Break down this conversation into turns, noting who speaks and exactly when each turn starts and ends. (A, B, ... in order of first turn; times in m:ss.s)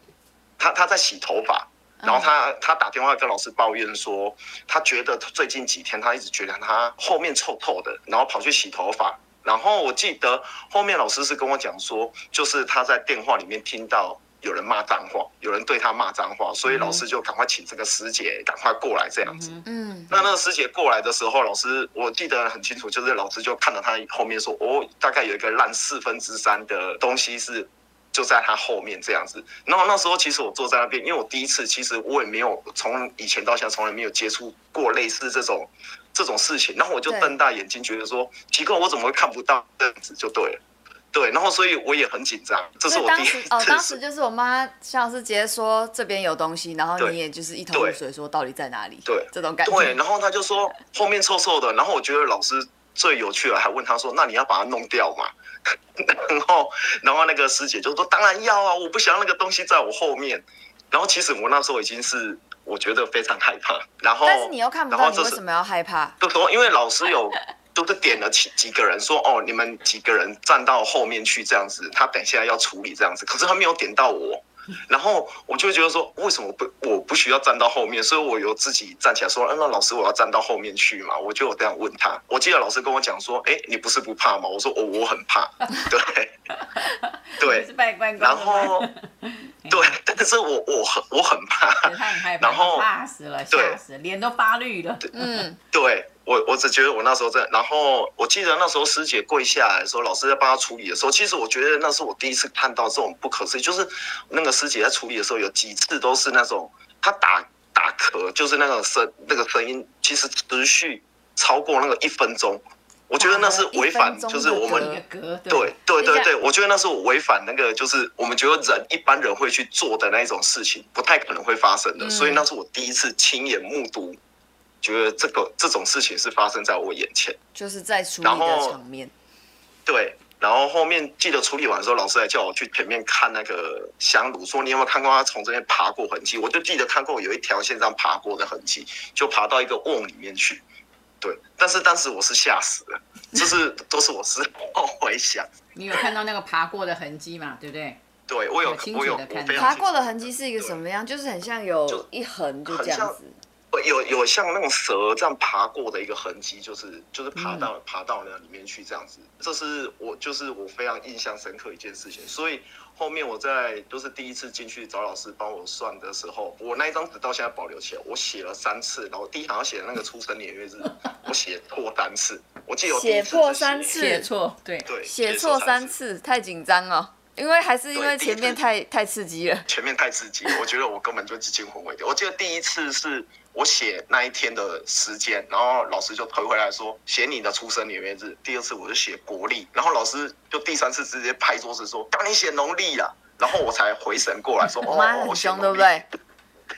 0:00.6-0:19.5 A
0:02.0-0:02.3 B
0:16.7-0:17.0 C
0:19.2-0:19.6 C
0:19.6-0:20.3 B
0:20.1-0:40.6 A
0:37.1-0:37.4 B
0:41.1-0:44.0 A
0:42.9-0:50.0 B
0:47.7-0:48.0 A
0:49.1-1:05.4 A
1:04.2-1:06.2 B
1:06.2-1:26.4 A
1:26.6-1:29.9 C
1:27.4-1:27.7 A
1:28.2-1:28.9 A
1:29.7-1:32.9 A
1:31.8-1:35.4 C
1:33.5-1:33.8 A
1:35.1-1:35.6 B
1:35.7-1:54.9 A
1:53.2-1:55.0 B
1:54.5-1:55.8 C
1:55.5-2:04.2 A
1:56.0-1:56.3 B
2:02.0-2:02.4 B
2:04.8-2:07.4 A
2:07.5-2:09.1 B
2:08.2-2:08.8 A
2:09.9-2:20.6 A
2:21.2-2:26.0 A
2:25.8-2:28.0 C
2:28.3-2:30.8 A
2:28.6-2:29.7 C
2:29.6-2:33.4 B
2:32.7-2:33.2 A
2:33.7-2:54.0 A
2:37.4-2:37.7 C
2:52.9-2:54.3 B
2:53.9-2:54.9 C
2:54.9-2:56.0 A
2:55.0-2:59.7 B
2:57.9-2:58.6 A
2:59.7-3:16.0 A
3:14.8-3:16.1 B